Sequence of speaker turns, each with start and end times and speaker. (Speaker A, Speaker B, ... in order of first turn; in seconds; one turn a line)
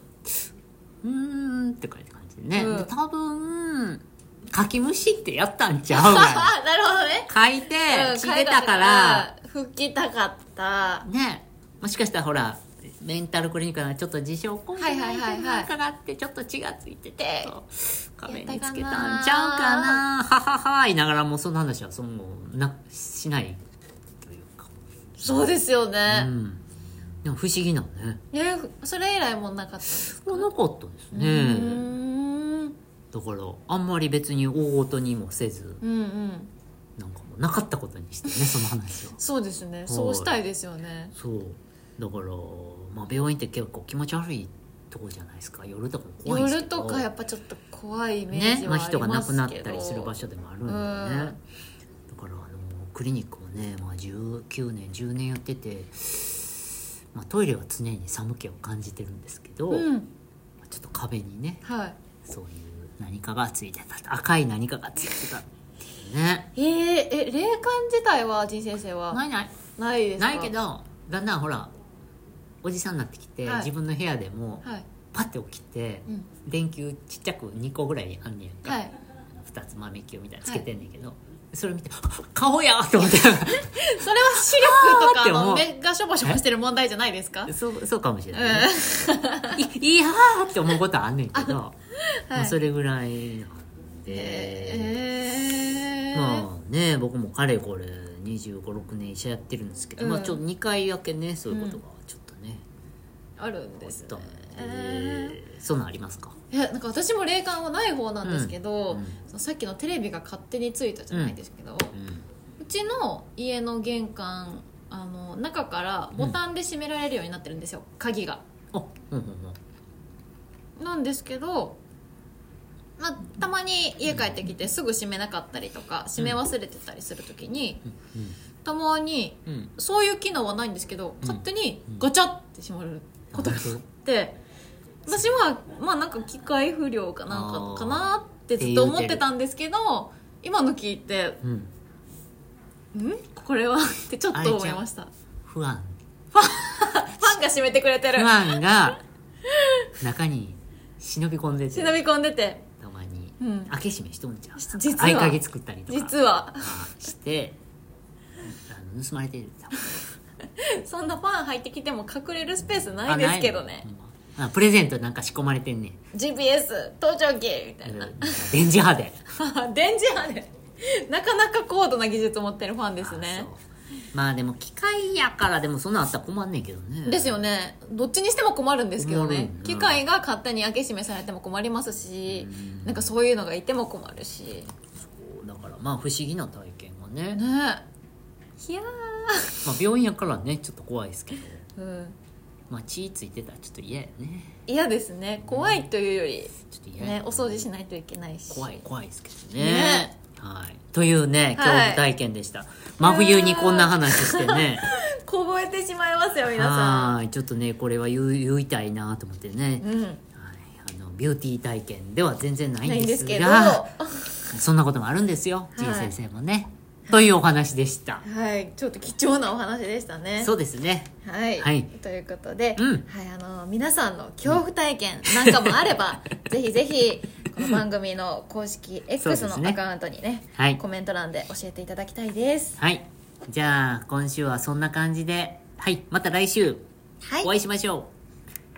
Speaker A: 1.0-6.5
Speaker B: 2.5-2.9
Speaker B: 5.9-7.3
Speaker A: 7.3-9.3
Speaker B: 7.9-11.1
Speaker A: 11.0-23.6
Speaker B: 14.8-15.7
Speaker B: 17.2-17.5
Speaker B: 18.3-20.0
Speaker A: 24.2-25.5
Speaker B: 25.2-26.3
Speaker A: 26.1-26.6
Speaker A: 27.2-28.2
Speaker B: 28.3-30.5
Speaker A: 30.0-31.9
Speaker B: 31.1-32.7
Speaker A: 33.1-35.8
Speaker B: 35.8-36.5
Speaker A: 37.0-39.2
Speaker B: 39.2-41.1
Speaker A: 39.9-40.4
Speaker A: 41.1-47.0
Speaker B: 46.2-51.4
Speaker A: 48.3-51.4
Speaker A: 52.1-59.9
Speaker B: 59.7-60.1
Speaker A: 60.6-61.6
Speaker B: 61.6-62.0
Speaker A: 62.2-66.5
Speaker B: 66.5-69.2
Speaker A: 69.1-69.5
Speaker B: 69.7-70.5
Speaker A: 70.2-71.7
Speaker A: 72.6-85.7
Speaker B: 73.4-73.7
Speaker B: 78.6-78.9
Speaker B: 83.0-87.5
Speaker A: 87.5-88.7
Speaker B: 88.3-89.6
Speaker A: 89.5-91.8
Speaker B: 92.2-92.5
Speaker A: 92.3-95.0
Speaker B: 94.1-96.5
Speaker A: 96.1-102.6
Speaker B: 100.0-100.4
Speaker B: 101.5-101.8
Speaker B: 103.4-105.4
Speaker A: 103.8-106.4
Speaker B: 106.5-111.9
Speaker A: 108.2-109.2
Speaker A: 111.1-111.4
Speaker A: 111.9-112.2
Speaker B: 112.6-118.4
Speaker A: 118.7-119.6
Speaker B: 120.8-121.8
Speaker B: 123.0-127.8
Speaker A: 124.1-124.3
Speaker A: 126.2-126.4
Speaker A: 128.0-128.3
Speaker B: 128.6-134.4
Speaker A: 129.4-129.7
Speaker A: 131.2-132.0
Speaker A: 133.3-133.8
Speaker B: 135.1-141.4
Speaker A: 137.3-139.2
Speaker A: 141.4-141.7
Speaker B: 142.9-145.1
Speaker A: 144.3-144.8
Speaker A: 145.4-145.9
Speaker B: 146.3-148.6
Speaker A: 148.1-149.0
Speaker B: 149.5-149.9
Speaker A: 150.0-152.0
Speaker B: 151.7-152.6
Speaker A: 152.8-157.6
Speaker B: 153.4-153.7
Speaker B: 154.6-156.8
Speaker A: 158.5-160.0
Speaker B: 160.6-163.8
Speaker A: 163.1-166.0
Speaker B: 166.1-168.6
Speaker A: 167.8-169.2
Speaker B: 169.3-173.5
Speaker A: 173.0-173.6
Speaker A: 174.1-177.4
Speaker B: 177.0-184.7
Speaker A: 179.0-180.0
Speaker A: 182.3-183.1
Speaker A: 184.9-187.4
Speaker B: 187.3-187.8
Speaker B: 188.6-189.6
Speaker A: 189.6-191.7
Speaker B: 191.8-192.2
Speaker A: 192.7-194.6
Speaker B: 194.7-198.8
Speaker A: 195.4-195.9
Speaker A: 196.7-197.7
Speaker A: 198.5-204.9
Speaker B: 199.6-200.1
Speaker B: 201.5-202.0
Speaker B: 203.0-207.2
Speaker A: 206.4-213.9
Speaker B: 209.8-210.2
Speaker B: 212.8-214.6
Speaker A: 214.5-218.2
Speaker B: 215.8-216.1
Speaker B: 218.2-220.5
Speaker A: 220.4-221.9
Speaker B: 221.2-232.8
Speaker A: 222.8-223.1
Speaker A: 225.3-225.9
Speaker A: 229.2-229.8
Speaker A: 232.8-236.8
Speaker B: 237.2-237.5
Speaker A: 237.4-238.1